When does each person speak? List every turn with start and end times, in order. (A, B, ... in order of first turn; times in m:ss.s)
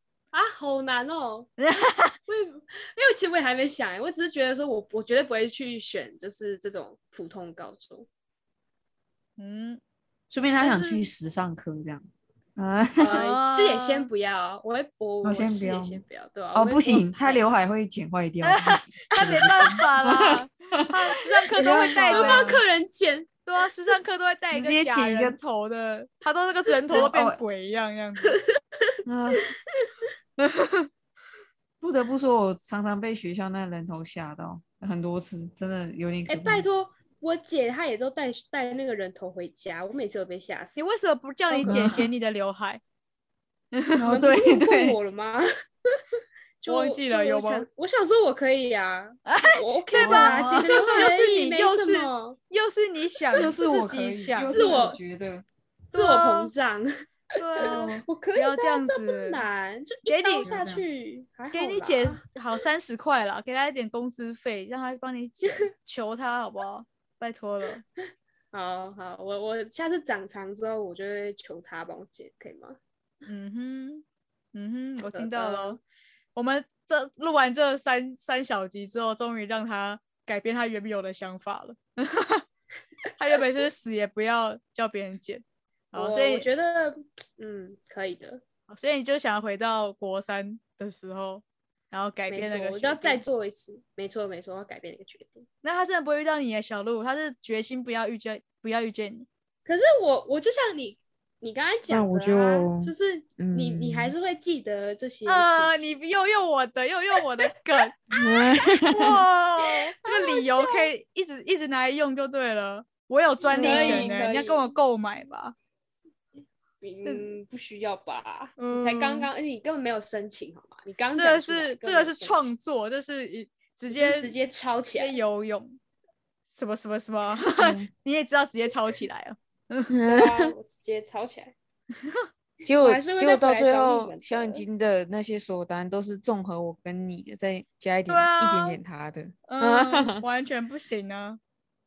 0:00.3-0:01.5 A
0:01.6-0:02.1 B
0:02.3-0:08.1 A
0:09.4-0:09.8 B
0:10.3-0:13.2 C
0:10.6-0:11.1 A
0:13.0-0:17.4 A
0:13.0-0:14.1 B
0:15.2-0:16.0 C
0:16.5-0:20.9 C
0:18.4-0:22.6 B
0:19.1-0:19.8 A
0:21.5-0:22.6 C
0:21.6-0:23.4 A
0:23.4-0:28.4 B
0:24.5-0:25.4 C
0:26.9-0:27.4 C
0:28.3-0:28.9 A
0:29.0-0:29.6 C
0:29.8-0:30.0 A
0:30.4-0:30.9 B
0:31.8-0:36.6 C
0:36.3-0:40.9 A
0:40.8-0:42.8 B
0:41.5-0:42.1 A
0:41.6-0:42.1 C
0:43.7-0:44.0 B
0:44.0-0:45.0 C
0:44.0-0:46.0 A
0:46.6-0:52.4 A
0:46.6-0:47.7 B
0:49.3-0:54.9 B
0:49.9-0:51.1 C
0:53.3-0:55.4 C
0:54.5-0:55.0 A
0:55.9-0:56.9 A
0:55.9-0:56.5 B
0:57.4-0:59.4 B
0:57.6-1:02.3 A
0:57.6-0:58.0 C
1:00.0-1:00.5 B
1:00.4-1:00.8 C
1:01.5-1:07.8 B
1:08.5-1:12.8 A
1:13.3-1:15.8 B
1:15.0-1:15.8 A
1:16.4-1:22.4 B
1:23.2-1:26.5 B
1:25.9-1:28.4 A
1:28.7-1:33.2 B
1:32.3-1:35.4 A
1:35.6-1:39.3 B
1:39.6-1:45.8 A
1:41.9-1:44.1 C
1:45.3-1:48.0 B
1:48.1-1:49.2 C
1:48.8-1:55.5 B
1:50.0-1:50.9 A
1:53.4-1:54.8 A
1:53.5-1:54.2 C
1:56.8-2:02.5 A
1:57.0-1:57.4 B
1:58.6-1:59.3 B
2:01.2-2:04.3 B
2:03.9-2:05.2 A
2:05.0-2:05.8 B
2:06.5-2:09.9 B
2:07.6-2:07.9 C
2:09.9-2:10.5 C
2:10.1-2:11.6 A
2:12.6-2:20.2 C
2:12.7-2:14.6 A
2:18.1-2:18.8 B
2:19.5-2:21.4 B